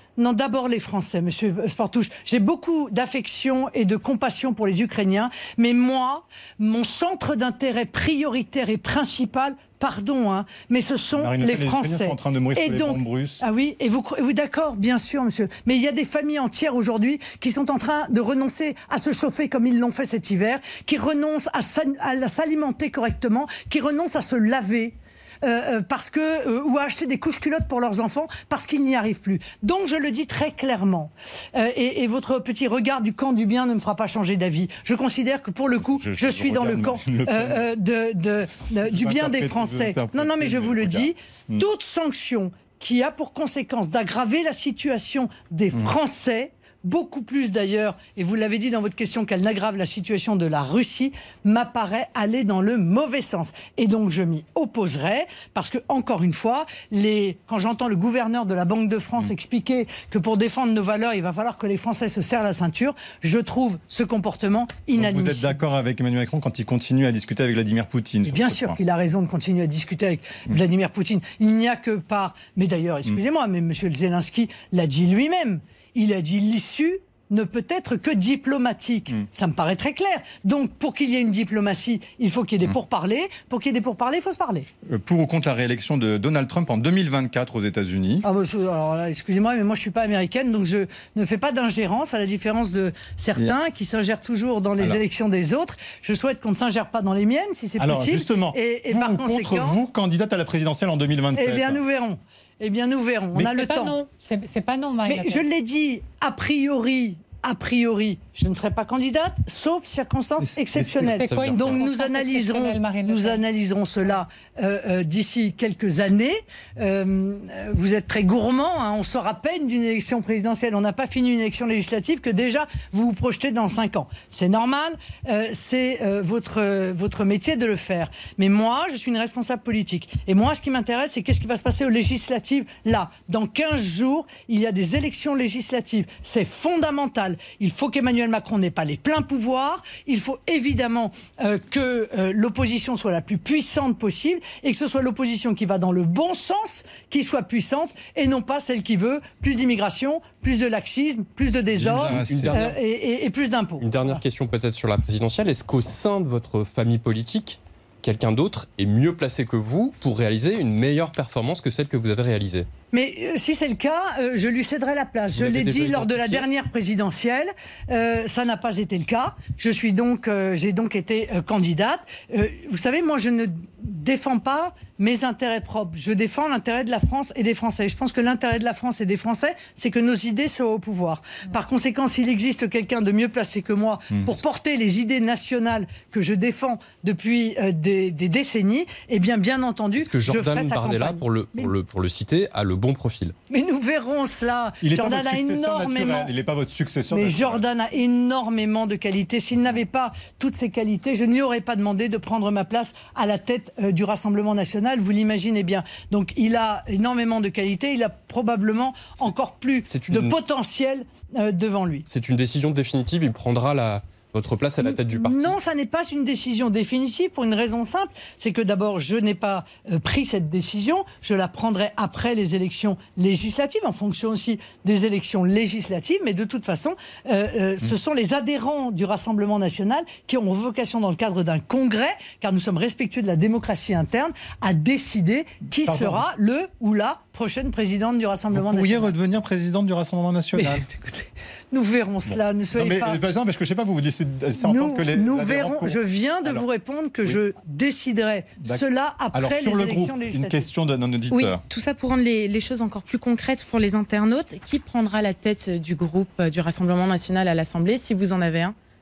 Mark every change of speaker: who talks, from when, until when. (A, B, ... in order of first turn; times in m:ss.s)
0:00.2-1:05.6 A
0:11.2-0:13.4 B
0:35.8-0:37.7 B
0:38.7-0:41.6 B
1:05.0-1:08.8 B
1:08.2-1:24.7 A
1:24.8-1:28.3 B
1:28.2-1:39.8 A
1:37.8-1:41.8 B
1:41.4-1:44.0 A
1:43.4-1:45.4 C
1:45.1-2:34.2 A
1:50.4-1:51.2 B
1:50.9-1:53.4 C
1:51.2-1:51.8 D
2:31.7-2:32.8 B
2:32.0-2:32.7 D
2:33.8-2:42.7 D
2:42.9-3:11.7 A
2:45.4-2:46.5 D
3:04.1-3:04.4 B
3:10.0-3:13.3 D
3:13.5-3:16.3 A
3:14.8-3:17.7 B
3:17.1-3:32.1 A
3:29.9-3:30.4 D
3:32.1-3:35.6 D
3:34.8-3:59.1 A
3:55.8-3:56.2 B
3:58.5-4:00.9 B
4:00.5-4:03.2 A
4:02.3-4:06.6 B
4:04.6-4:10.7 A
4:08.6-4:11.6 B
4:11.3-4:18.8 E